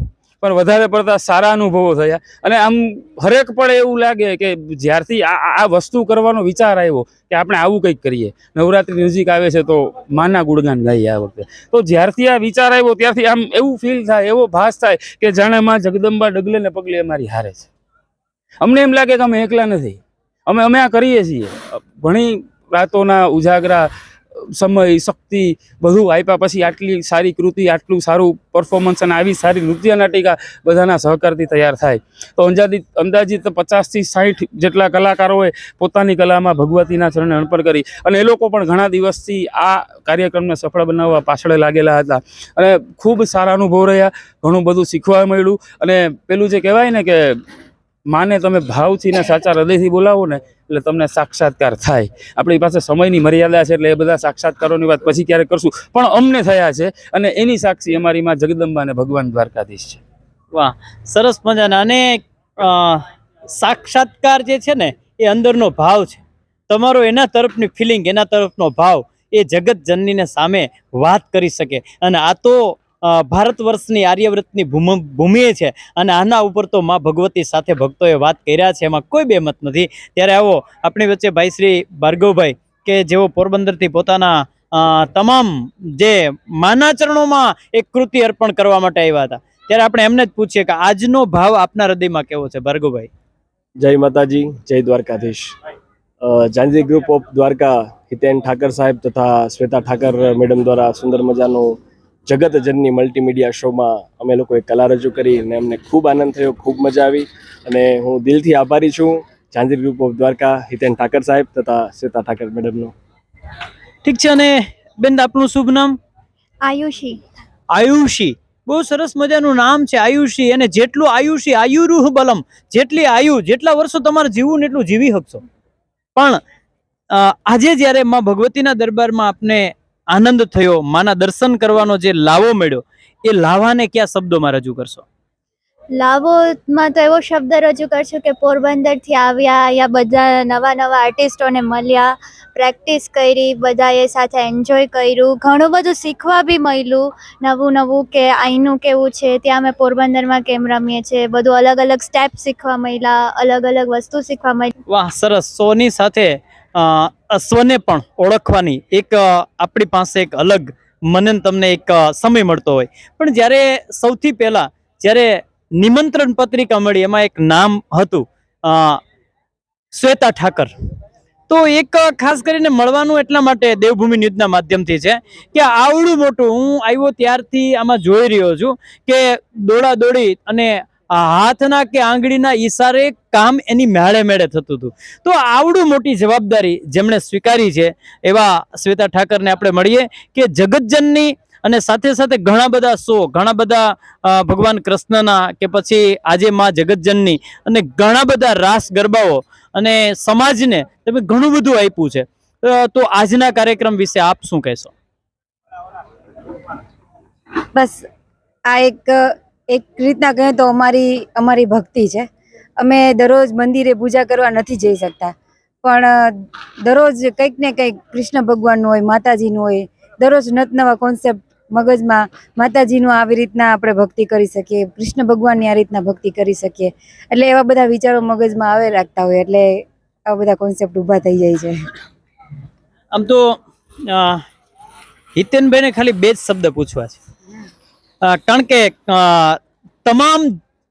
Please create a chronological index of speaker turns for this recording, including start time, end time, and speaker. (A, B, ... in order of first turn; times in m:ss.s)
0:00.4-0:17.7 A
0:18.6-0:23.9 A
0:24.5-0:47.4 A
0:48.1-1:00.0 A
1:00.5-1:03.0 B
1:03.6-1:33.1 B
1:33.8-1:35.5 C
1:36.2-1:52.9 C
1:54.0-1:56.0 B
1:56.6-1:57.2 D
1:57.7-2:05.4 B
2:06.2-2:06.4 B
2:07.1-2:15.0 B
2:16.0-2:34.7 D
2:34.9-2:49.0 B
2:49.9-2:50.7 B
2:51.5-3:24.9 B
3:27.8-3:28.0 E
3:28.7-3:32.3 E
3:32.8-3:35.3 E
3:35.8-3:49.8 E
3:50.3-3:51.8 E
3:53.1-3:53.6 B
3:54.1-3:54.4 B
3:55.4-3:57.2 B
3:58.2-4:00.5 B